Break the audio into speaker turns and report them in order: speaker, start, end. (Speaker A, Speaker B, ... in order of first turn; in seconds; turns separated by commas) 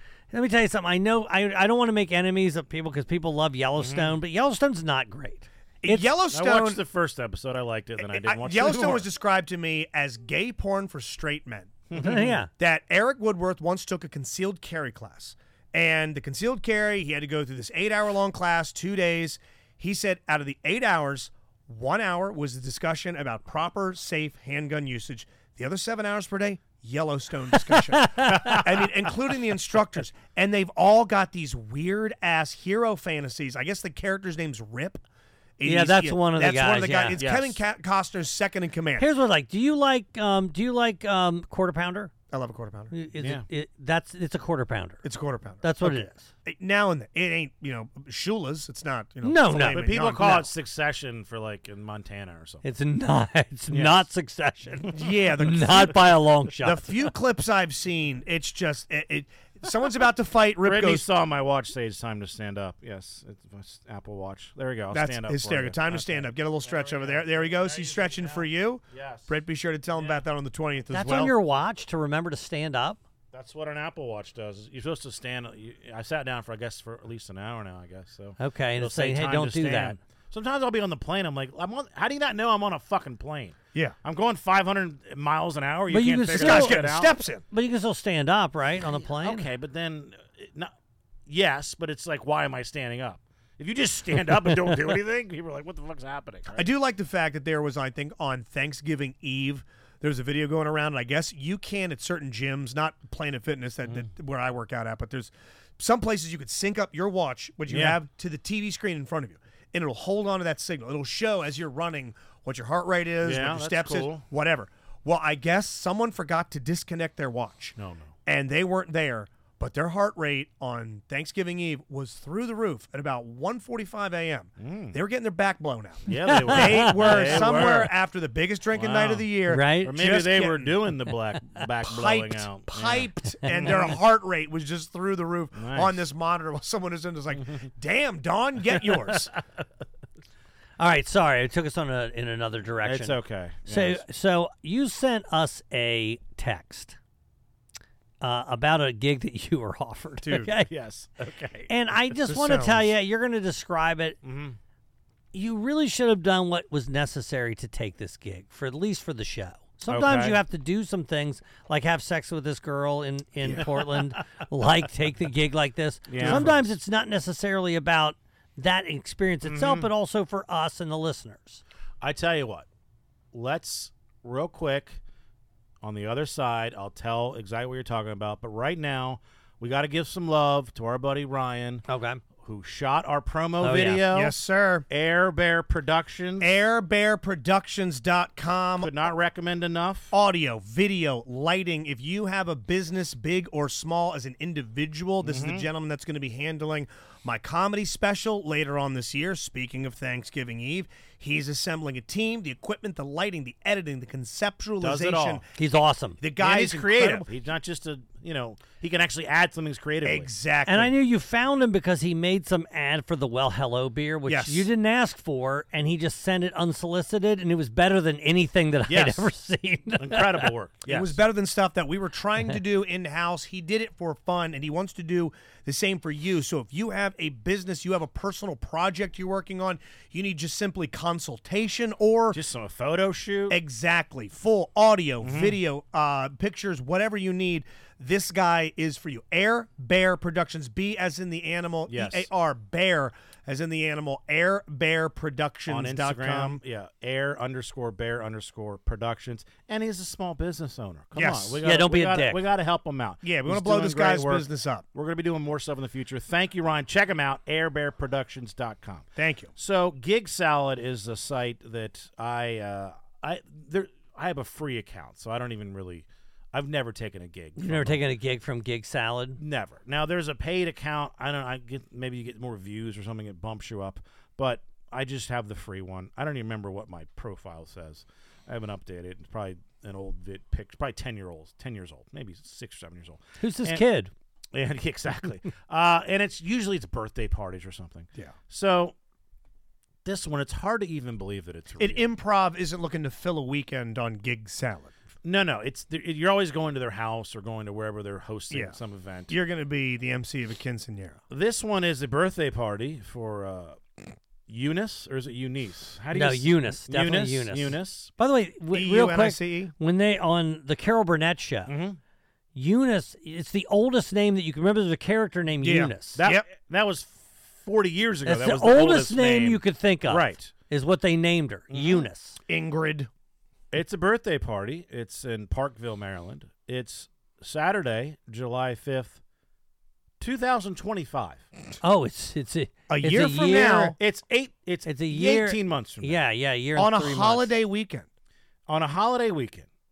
Speaker A: 0.3-6.1, Speaker B: 3.8-4.1, Speaker C: 5.8-6.8, Speaker B: 6.3-9.1, Speaker C: 8.0-11.8, Speaker B: 11.9-12.4, Speaker A: 11.9-12.5, Speaker C: 12.5-35.0, Speaker A: 27.7-28.7, Speaker C: 35.6-39.1, Speaker A: 35.6-37.2, Speaker B: 37.1-37.6, Speaker A: 39.0-42.1, Speaker C: 42.3-42.9, Speaker A: 42.9-45.0, Speaker B: 43.2-43.4, Speaker C: 45.0-50.5, Speaker A: 45.6-46.3, Speaker A: 49.2-50.4, Speaker B: 49.6-52.6, Speaker A: 52.6-57.1, Speaker B: 53.7-54.0, Speaker C: 54.9-61.0, Speaker B: 60.6-69.3, Speaker C: 64.9-71.3, Speaker B: 69.9-70.2, Speaker A: 70.9-73.0, Speaker B: 73.3-87.1, Speaker A: 78.4-80.0, Speaker A: 85.9-86.9, Speaker C: 86.3-87.4, Speaker A: 87.5-89.5, Speaker B: 88.9-90.7, Speaker B: 91.3-96.7, Speaker C: 96.5-117.7, Speaker B: 107.7-108.0, Speaker B: 113.2-114.2, Speaker B: 117.8-118.1, Speaker C: 118.2-130.8, Speaker B: 124.6-125.0, Speaker B: 126.1-127.9, Speaker A: 126.2-127.3, Speaker B: 128.7-134.0, Speaker A: 129.5-129.9, Speaker C: 131.8-139.3, Speaker B: 135.6-136.0, Speaker A: 140.8-147.0, Speaker B: 142.8-144.0, Speaker A: 148.2-150.7, Speaker C: 150.2-150.5, Speaker B: 150.7-151.7, Speaker A: 151.7-154.2, Speaker C: 152.2-152.9, Speaker B: 154.2-154.6, Speaker A: 155.3-171.6, Speaker B: 159.9-160.4, Speaker B: 163.4-164.1, Speaker B: 166.1-166.7, Speaker C: 166.1-166.5, Speaker B: 169.4-169.9, Speaker B: 172.0-172.7, Speaker B: 173.3-175.0, Speaker B: 175.8-181.8, Speaker A: 181.9-182.2, Speaker B: 182.4-184.3, Speaker A: 183.6-184.0, Speaker C: 184.1-184.8, Speaker B: 184.9-186.5, Speaker C: 186.4-188.9, Speaker B: 188.8-190.1, Speaker C: 190.1-205.4, Speaker B: 195.2-195.7, Speaker B: 204.8-205.4, Speaker A: 205.6-206.2, Speaker C: 206.2-207.3, Speaker B: 206.4-210.3, Speaker C: 210.0-210.9, Speaker A: 210.7-220.5, Speaker C: 214.2-214.7, Speaker B: 218.9-219.3, Speaker B: 220.0-221.2, Speaker C: 220.9-232.4, Speaker B: 232.3-233.6, Speaker C: 233.5-246.6, Speaker B: 235.2-235.6, Speaker B: 241.9-242.3, Speaker B: 245.7-268.0, Speaker C: 251.1-251.6, Speaker A: 251.6-252.4, Speaker C: 253.2-254.8, Speaker C: 259.2-259.5, Speaker A: 267.6-269.4, Speaker B: 269.4-283.8, Speaker A: 283.4-284.1, Speaker B: 284.5-288.9, Speaker B: 290.0-292.1, Speaker C: 291.8-294.9, Speaker B: 295.2-299.3, Speaker C: 298.5-298.8, Speaker C: 299.3-301.2, Speaker B: 301.3-308.1, Speaker A: 306.1-311.7, Speaker C: 308.7-309.7, Speaker B: 311.7-312.0, Speaker A: 312.5-316.2, Speaker C: 315.6-316.4, Speaker B: 316.1-320.5, Speaker A: 318.2-322.4, Speaker B: 321.7-322.1, Speaker C: 322.5-323.1, Speaker B: 323.7-329.2, Speaker B: 330.2-331.5, Speaker A: 331.8-334.0, Speaker C: 332.9-334.0, Speaker B: 334.0-336.2, Speaker A: 334.8-337.5, Speaker C: 336.8-338.1, Speaker B: 338.7-339.6